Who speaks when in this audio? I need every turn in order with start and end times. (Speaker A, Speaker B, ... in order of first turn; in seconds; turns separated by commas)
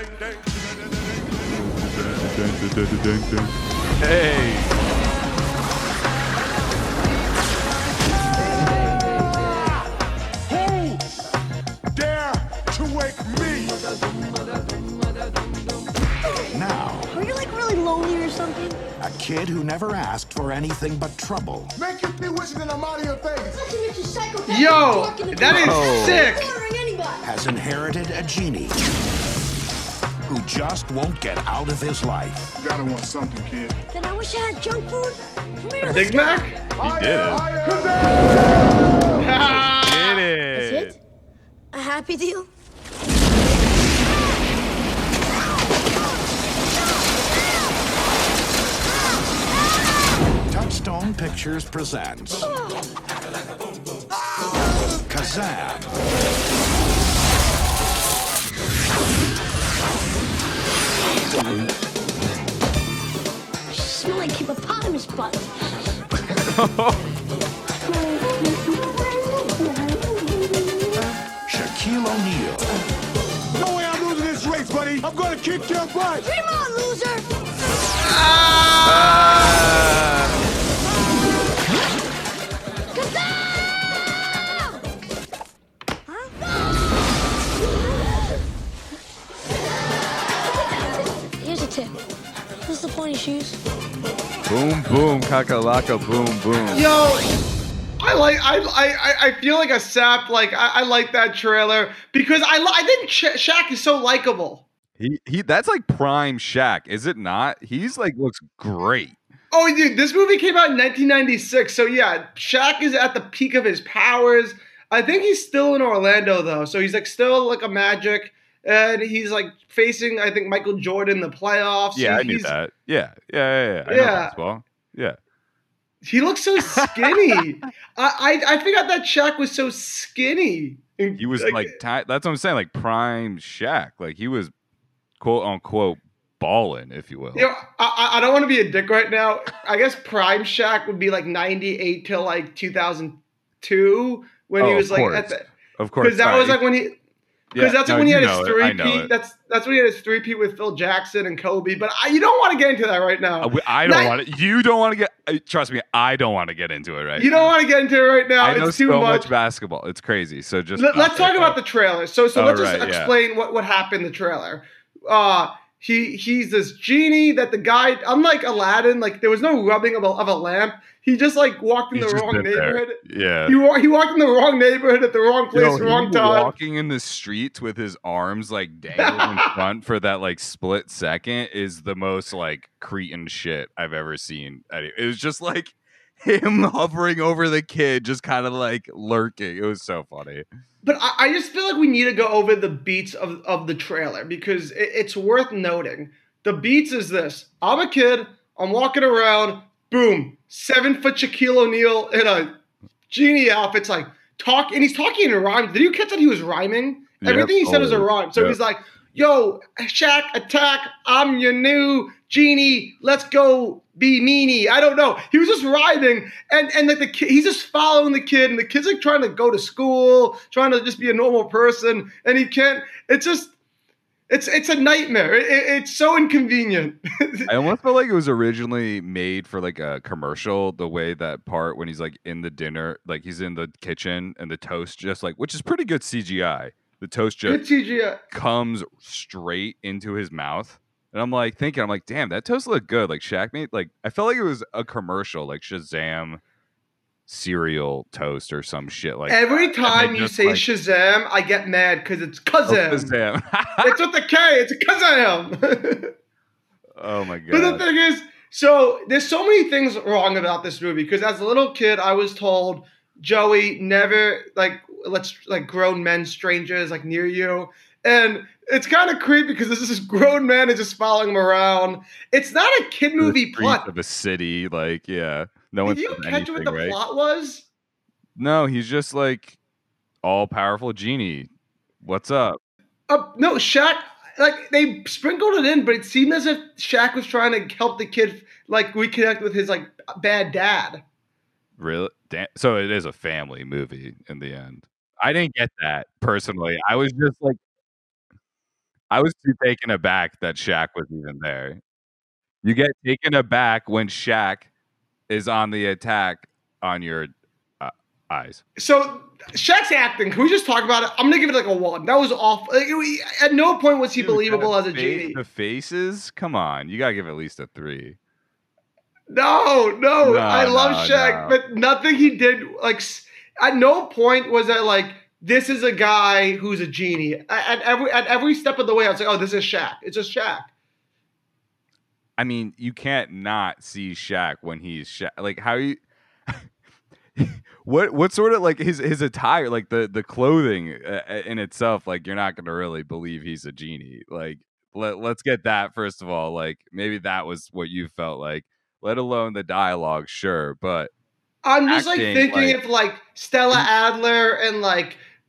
Speaker A: 1.5-4.8, Speaker B: 10.5-11.0, Speaker B: 11.9-13.8, Speaker C: 16.5-17.1, Speaker D: 17.1-18.8, Speaker C: 19.0-21.7, Speaker B: 21.8-23.6, Speaker D: 23.5-27.2, Speaker E: 24.5-26.5, Speaker A: 25.5-26.3, Speaker C: 27.2-28.8, Speaker C: 30.3-32.5, Speaker B: 32.6-33.8, Speaker D: 33.9-36.5, Speaker E: 35.8-36.6, Speaker B: 36.8-39.3, Speaker A: 36.8-37.5, Speaker E: 39.2-40.2, Speaker A: 39.5-41.0, Speaker D: 40.5-41.0, Speaker D: 41.7-42.5, Speaker D: 43.9-44.4, Speaker D: 45.6-47.8, Speaker C: 50.5-52.5, Speaker D: 52.4-52.8, Speaker C: 55.0-55.9, Speaker D: 63.7-65.9, Speaker A: 66.5-67.0, Speaker D: 67.8-71.1, Speaker C: 71.5-72.7, Speaker B: 73.5-76.3, Speaker D: 76.2-77.3, Speaker E: 78.0-79.3, Speaker A: 78.8-80.3, Speaker D: 79.3-79.6, Speaker D: 82.9-84.8, Speaker D: 86.1-87.2, Speaker D: 91.4-92.0, Speaker D: 92.7-93.6, Speaker A: 94.5-96.9, Speaker E: 96.7-97.3, Speaker E: 98.0-104.7, Speaker A: 105.0-109.2, Speaker E: 109.5-122.5, Speaker A: 122.0-125.2, Speaker E: 123.9-124.3, Speaker E: 126.0-131.7, Speaker A: 126.7-127.1, Speaker A: 131.2-134.5, Speaker A: 135.2-137.5, Speaker E: 137.3-145.4, Speaker A: 144.6-146.6, Speaker E: 146.0-147.0, Speaker A: 147.5-149.1, Speaker E: 147.6-154.2, Speaker A: 153.4-157.5, Speaker E: 157.2-159.3, Speaker A: 158.4-161.6, Speaker E: 160.8-176.5, Speaker A: 162.3-163.1, Speaker A: 171.9-173.6, Speaker A: 175.5-190.4, Speaker E: 179.0-179.6, Speaker E: 190.8-202.5, Speaker E: 203.1-223.5, Speaker A: 207.2-208.6, Speaker E: 224.3-227.5, Speaker A: 227.5-237.7, Speaker E: 237.5-238.2, Speaker A: 238.3-246.4, Speaker A: 247.3-250.7, Speaker E: 249.3-253.1, Speaker A: 252.7-254.0, Speaker E: 253.8-256.1, Speaker A: 257.0-257.9, Speaker E: 257.5-273.9, Speaker A: 273.2-277.0, Speaker E: 275.9-277.7, Speaker A: 278.4-279.6, Speaker A: 280.2-281.5, Speaker A: 282.0-282.6, Speaker E: 283.1-291.0, Speaker A: 291.8-297.6, Speaker A: 299.1-301.8, Speaker A: 302.6-304.7, Speaker A: 305.3-308.6, Speaker E: 308.8-315.4, Speaker A: 314.2-318.2, Speaker E: 319.3-330.7, Speaker A: 320.2-321.6, Speaker A: 332.4-336.6, Speaker A: 337.4-351.1, Speaker E: 351.6-355.2, Speaker A: 351.9-352.8